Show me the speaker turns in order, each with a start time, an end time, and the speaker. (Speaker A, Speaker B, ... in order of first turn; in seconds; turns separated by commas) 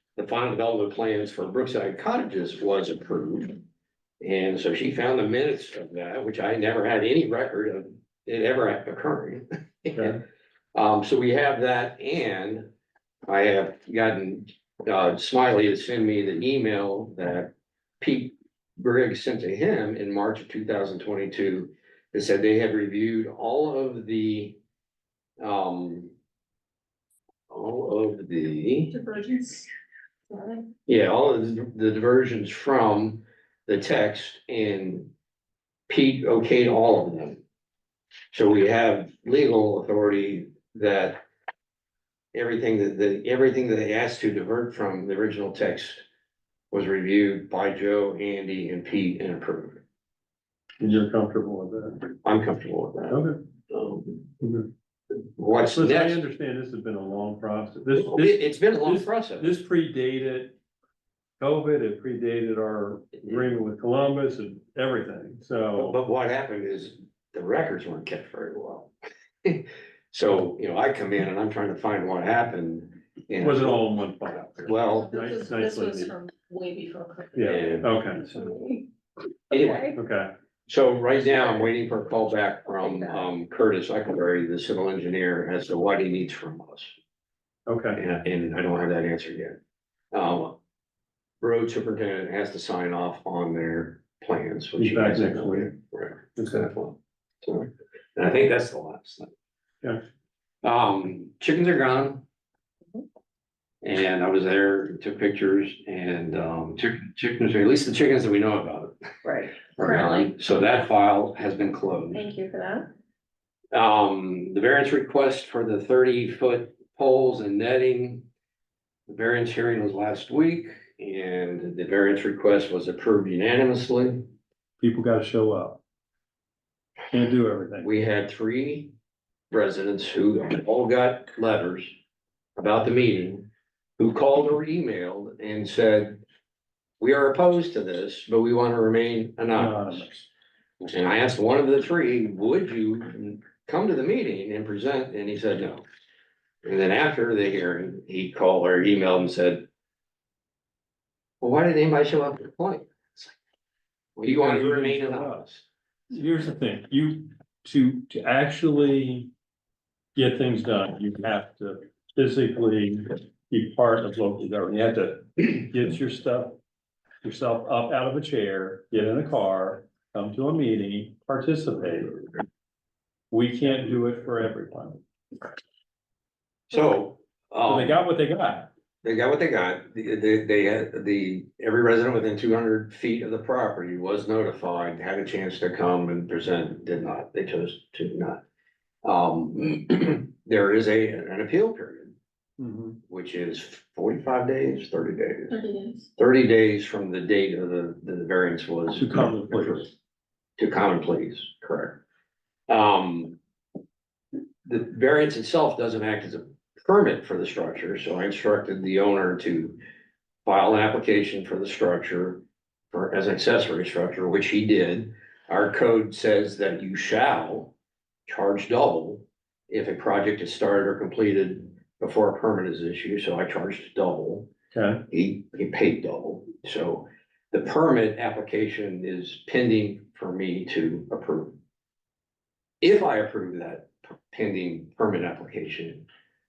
Speaker A: 0.2-3.6, Speaker A: 4.2-10.2, Speaker A: 10.8-12.7, Speaker A: 13.3-24.6, Speaker A: 25.4-26.1, Speaker A: 27.5-29.0, Speaker B: 28.9-29.7, Speaker B: 30.3-30.7, Speaker A: 30.9-35.1, Speaker A: 35.9-37.4, Speaker A: 38.3-41.2, Speaker A: 42.3-46.0, Speaker A: 46.7-49.8, Speaker C: 50.8-52.0, Speaker A: 52.2-54.3, Speaker C: 53.1-53.4, Speaker C: 54.4-54.7, Speaker A: 55.4-56.2, Speaker C: 55.6-60.5, Speaker A: 58.0-59.5, Speaker C: 61.4-66.0, Speaker A: 65.8-68.9, Speaker A: 69.4-73.8, Speaker C: 73.4-76.1, Speaker A: 74.6-75.1, Speaker B: 75.0-77.5, Speaker C: 77.3-78.3, Speaker A: 77.4-77.9, Speaker B: 78.2-78.8, Speaker A: 79.5-79.9, Speaker B: 79.5-80.0, Speaker C: 79.9-80.3, Speaker A: 80.7-86.9, Speaker B: 82.8-83.3, Speaker C: 87.7-88.0, Speaker A: 88.0-89.6, Speaker A: 90.1-90.6, Speaker A: 91.4-99.3, Speaker C: 94.8-95.8, Speaker C: 96.4-96.7, Speaker A: 100.6-102.2, Speaker A: 103.8-108.9, Speaker B: 109.2-110.3, Speaker A: 109.8-112.3, Speaker B: 112.1-112.9, Speaker A: 113.7-118.2, Speaker A: 119.1-124.2, Speaker C: 124.8-125.8, Speaker C: 127.1-127.9, Speaker A: 127.8-128.9, Speaker A: 129.5-131.9, Speaker A: 132.6-133.5, Speaker A: 134.0-136.2, Speaker A: 137.0-140.1, Speaker C: 139.5-140.3, Speaker A: 140.9-145.8, Speaker A: 146.6-149.7, Speaker A: 151.4-153.3, Speaker A: 154.2-155.7, Speaker C: 154.3-155.4, Speaker C: 156.1-159.3, Speaker C: 160.2-166.6, Speaker C: 167.2-172.2, Speaker C: 173.3-175.0, Speaker A: 176.7-178.0, Speaker C: 177.7-178.7, Speaker A: 179.0-188.4, Speaker A: 189.0-192.1, Speaker C: 192.6-193.0, Speaker A: 193.1-195.6, Speaker B: 195.5-196.1, Speaker A: 196.2-199.9, Speaker C: 198.9-199.9, Speaker A: 200.6-202.0, Speaker A: 202.7-203.4, Speaker A: 204.7-209.8, Speaker A: 210.5-217.7, Speaker A: 218.3-224.5, Speaker C: 224.7-225.0, Speaker A: 225.1-231.6, Speaker A: 232.8-236.0